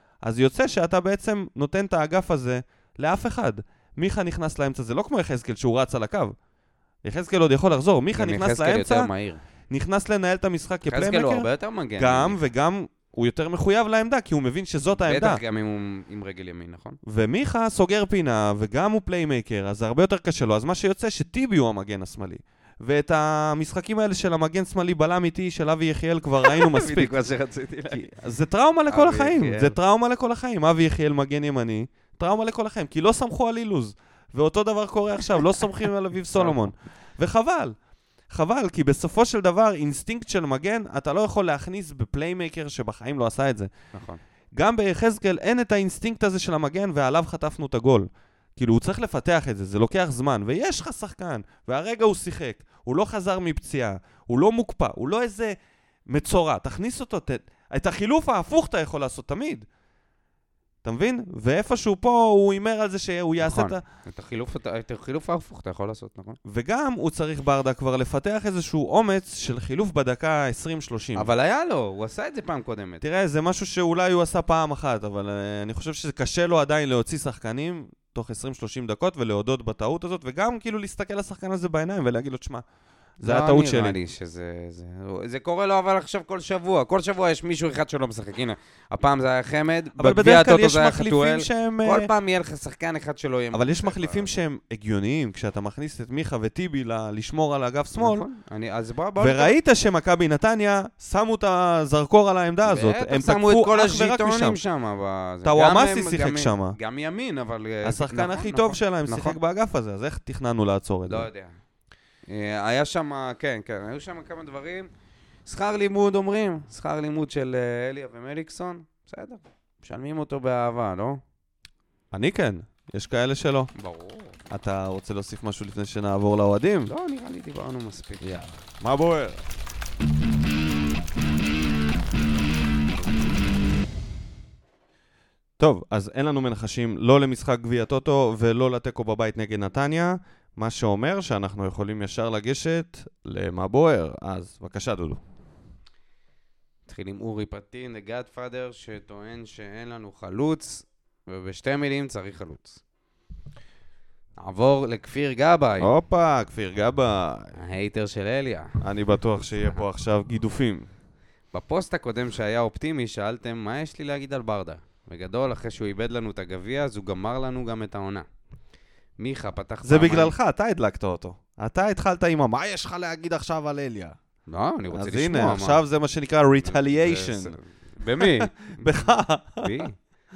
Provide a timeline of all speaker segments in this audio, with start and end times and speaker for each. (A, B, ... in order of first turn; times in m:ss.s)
0:00.2-0:06.3 A
0:07.0-0:09.1 A
0:08.1-0:09.4 B
0:09.7-0:15.4 A
0:10.9-0:12.4 B
0:15.0-0:17.0 B
0:17.0-0:27.1 A
0:26.4-0:28.0 B
0:27.9-0:37.8 A
0:28.9-0:29.8 B
0:36.3-0:36.6 B
0:38.3-0:43.7 A
0:43.9-0:44.2 B
0:44.5-0:55.6 A
0:56.1-0:59.6 A
1:00.8-1:03.8 A
1:03.4-1:06.4 B
1:06.4-1:11.3 A
1:11.1-1:13.0 B
1:13.0-1:22.6 A
1:23.2-1:24.0 A
1:23.2-1:34.3 B
1:30.0-1:32.1 A
1:33.5-1:38.2 A
1:38.0-1:39.6 B
1:39.2-1:44.6 A
1:42.6-1:49.4 B
1:45.4-1:46.8 A
1:47.8-1:51.3 A
1:51.1-1:51.6 B
1:52.3-1:54.9 B
1:55.4-2:01.2 B
2:02.1-2:03.7 A
2:03.7-2:04.3 B
2:04.5-2:06.9 A
2:06.9-2:08.4 B
2:08.2-2:09.4 A
2:15.6-2:25.2 A
2:26.9-2:32.8 B
2:34.4-2:35.9 B
2:35.8-2:37.6 A
2:37.6-2:38.7 B
2:38.8-2:40.9 A
2:41.5-2:48.2 B
2:49.2-2:50.3 B
2:49.8-2:54.2 A
2:54.5-2:55.8 B
2:54.9-2:57.6 A
2:56.6-2:59.1 B
2:58.2-2:59.8 A
2:59.6-3:00.0 B